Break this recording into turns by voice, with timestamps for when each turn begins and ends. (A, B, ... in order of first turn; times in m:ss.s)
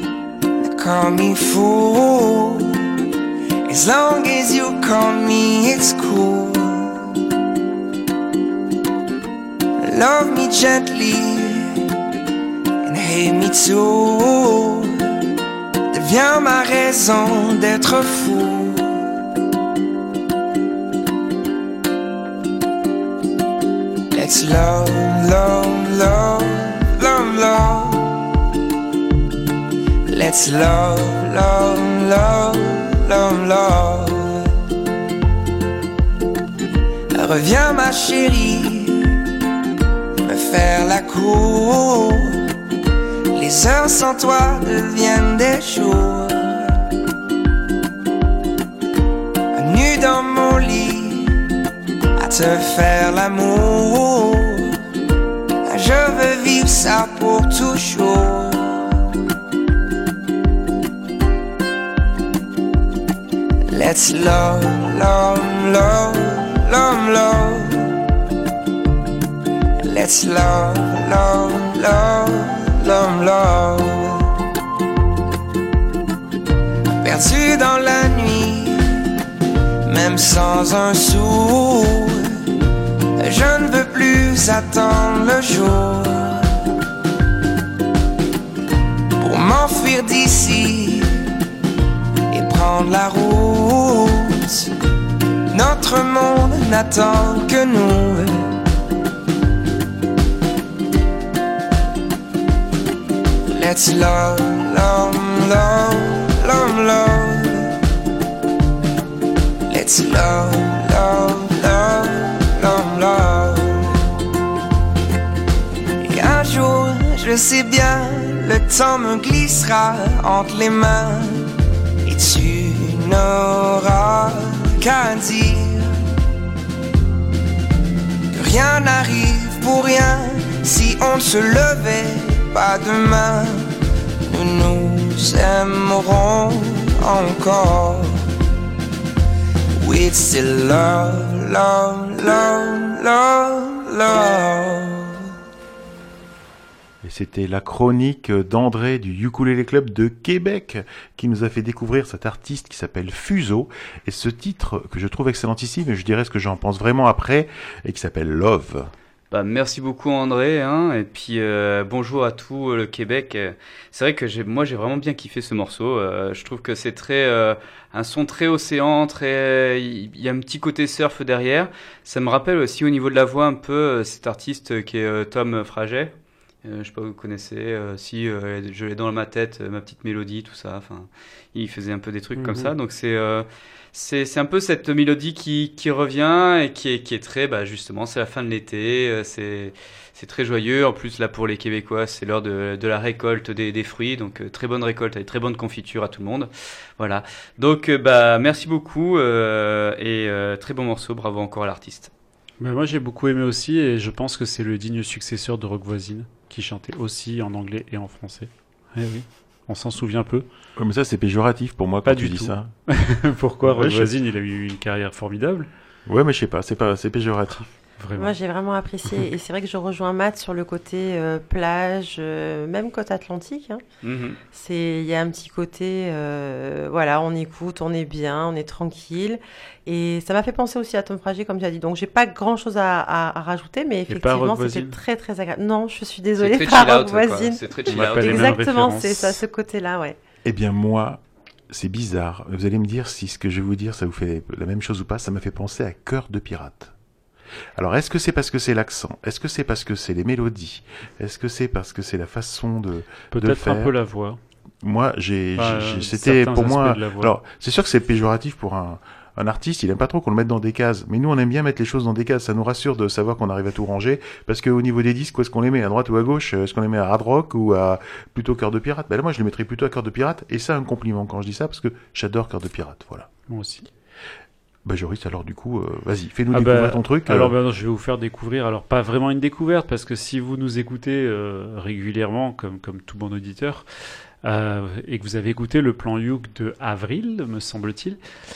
0:00.6-0:02.7 A
0:03.7-0:06.9 A
0:09.8-0:11.8 A
0:12.8-0:15.0 A
0:15.9-0:18.9 A
0:24.1-0:28.1 A
0:30.1-0:34.5 A
0:37.1-0:39.1 A
0:40.2-0:42.4 A
0:43.3-0:46.7 A
0:49.5-0:51.3 A
0:52.2-0:54.7 A
0:55.7-0:58.7 A
1:03.7-1:07.8 A
1:09.8-1:14.3 A
1:17.0-1:18.9 A
1:19.8-1:22.3 A
1:23.2-1:26.4 A
1:29.2-1:31.1 A
1:32.3-1:34.7 A
1:35.5-1:38.5 A
1:43.5-1:47.7 A
1:49.7-1:53.9 A
1:56.0-2:01.5 A
2:02.0-2:05.9 A
2:08.3-2:13.7 A
2:14.3-2:18.2 A
2:19.8-2:25.2 A
2:27.0-2:38.9 B
2:39.3-2:56.1 C
2:56.6-3:22.1 C
3:02.4-3:02.7 D
3:22.6-3:30.5 D
3:30.8-3:32.7 B
3:32.0-3:35.7 D
3:33.6-3:34.1 B
3:36.1-3:37.6 B
3:37.6-3:38.4 D
3:38.2-3:43.8 E
3:44.0-3:44.4 C
3:44.5-4:00.2 E
3:54.1-3:55.0 D
3:56.4-3:58.6 C
3:57.9-3:59.4 D
4:00.4-4:06.9 B
4:07.8-4:13.9 B
4:13.3-4:14.4 D
4:14.8-4:33.3 B
4:15.6-4:17.3 D
4:33.5-4:33.9 D
4:34.8-4:37.5 B
4:36.5-4:43.9 D
4:44.4-4:48.2 D